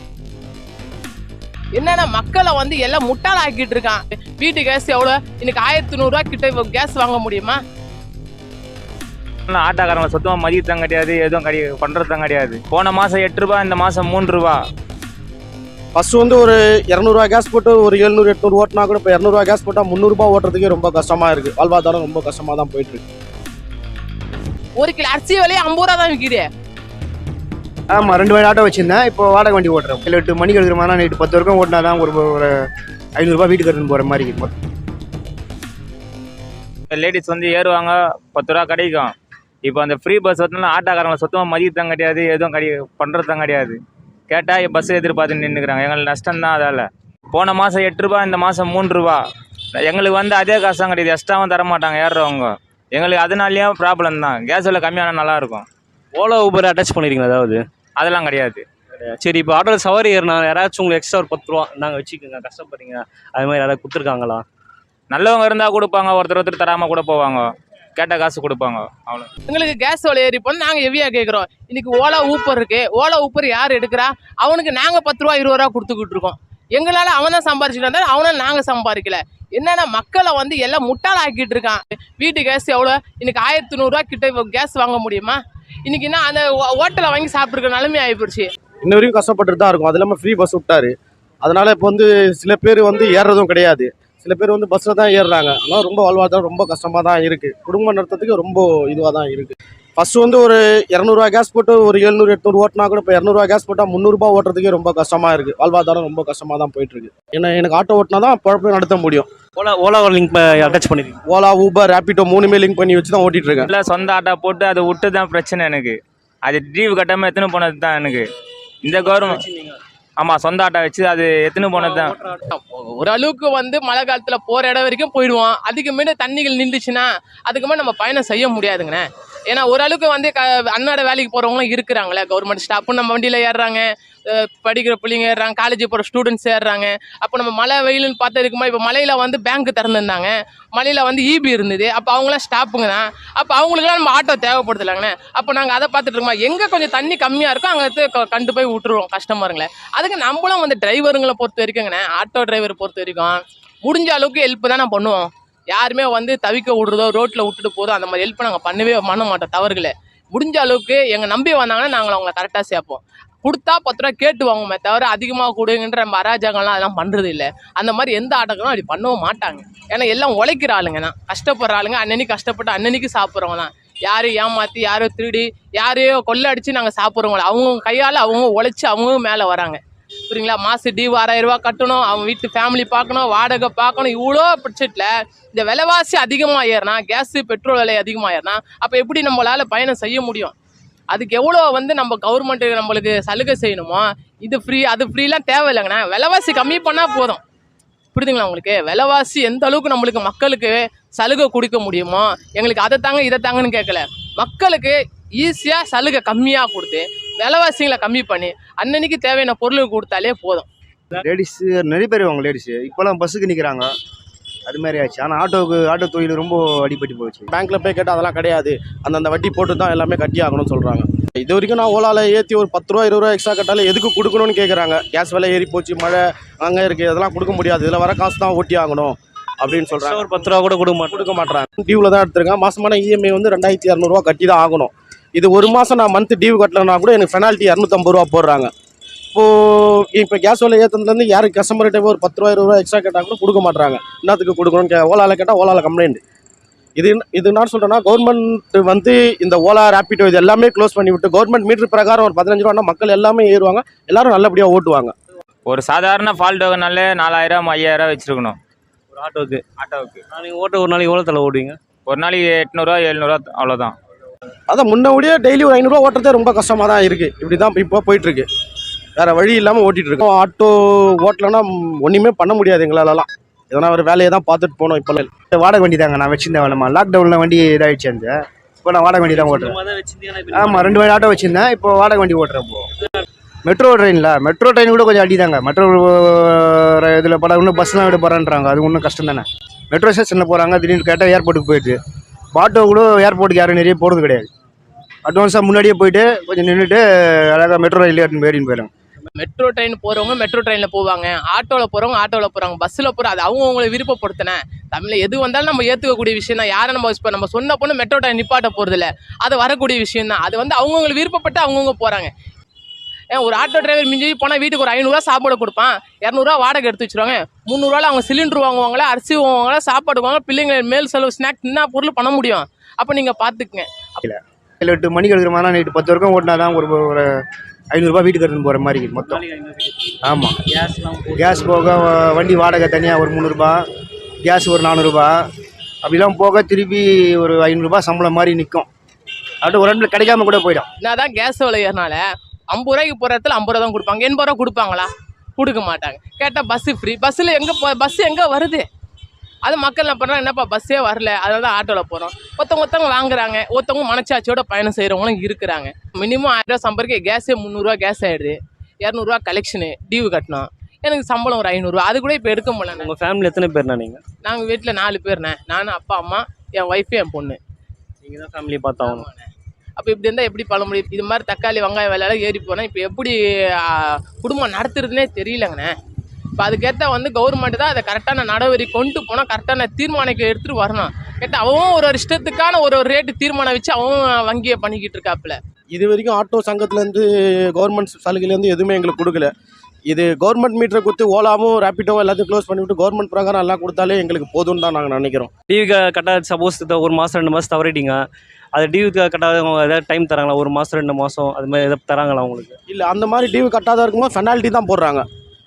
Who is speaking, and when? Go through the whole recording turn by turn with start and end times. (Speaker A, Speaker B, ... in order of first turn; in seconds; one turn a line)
Speaker A: 1.7-7.6
Speaker B: 9.5-14.6
Speaker C: 15.9-23.0
Speaker A: 24.8-26.5
Speaker D: 27.9-32.5
Speaker D: 33.2-34.5
Speaker B: 36.9-39.1
Speaker B: 39.6-43.8
Speaker B: 44.3-49.2
Speaker B: 49.8-55.6
Speaker E: 56.1-57.6
Speaker B: 58.0-58.6
Speaker E: 59.0-64.4
Speaker B: 65.1-69.3
Speaker A: 69.5-88.5
Speaker C: 88.8-109.3
Speaker E: 109.5-111.2
Speaker C: 111.2-113.7
Speaker B: 113.7-118.2
Speaker B: 118.8-119.4
Speaker E: 119.1-119.8
Speaker B: 120.2-122.2
Speaker E: 121.8-122.4
Speaker A: 122.5-190.5
Speaker A: 191.1-197.4
Speaker A: 198.1-210.7
Speaker D: 211.2-213.9
Speaker D: 214.7-217.5
Speaker C: 217.5-230.5
Speaker E: 229.9-231.3
Speaker C: 231.1-238.7
Speaker C: 239.3-246.2
Speaker C: 247.0-255.1
Speaker B: 255.7-258.6
Speaker E: 259.1-259.6
Speaker B: 259.8-260.2
Speaker E: 260.3-261.8
Speaker B: 262.1-263.9
Speaker C: 264.7-268.5
Speaker C: 269.1-275.3
Speaker D: 275.5-279.8
Speaker E: 279.3-281.1
Speaker D: 280.5-282.9
Speaker D: 283.6-291.9
Speaker D: 292.5-294.5
Speaker D: 295.2-298.9
Speaker A: 299.4-312.3
Speaker A: 313.3-324.2
Speaker D: 324.2-327.4
Speaker D: 327.9-329.4
Speaker E: 329.3-331.8
Speaker D: 330.2-330.6
Speaker D: 331.4-333.8
Speaker D: 334.4-335.4
Speaker D: 336.0-338.9
Speaker D: 339.6-340.9
Speaker A: 341.0-348.9
Speaker A: 349.6-363.1
Speaker E: 363.0-364.2
Speaker A: 364.4-367.6
Speaker E: 368.2-369.2
Speaker A: 369.0-375.9
Speaker A: 376.6-385.6
Speaker C: 385.9-389.5
Speaker C: 390.1-395.5
Speaker E: 395.6-402.8
Speaker C: 402.9-405.2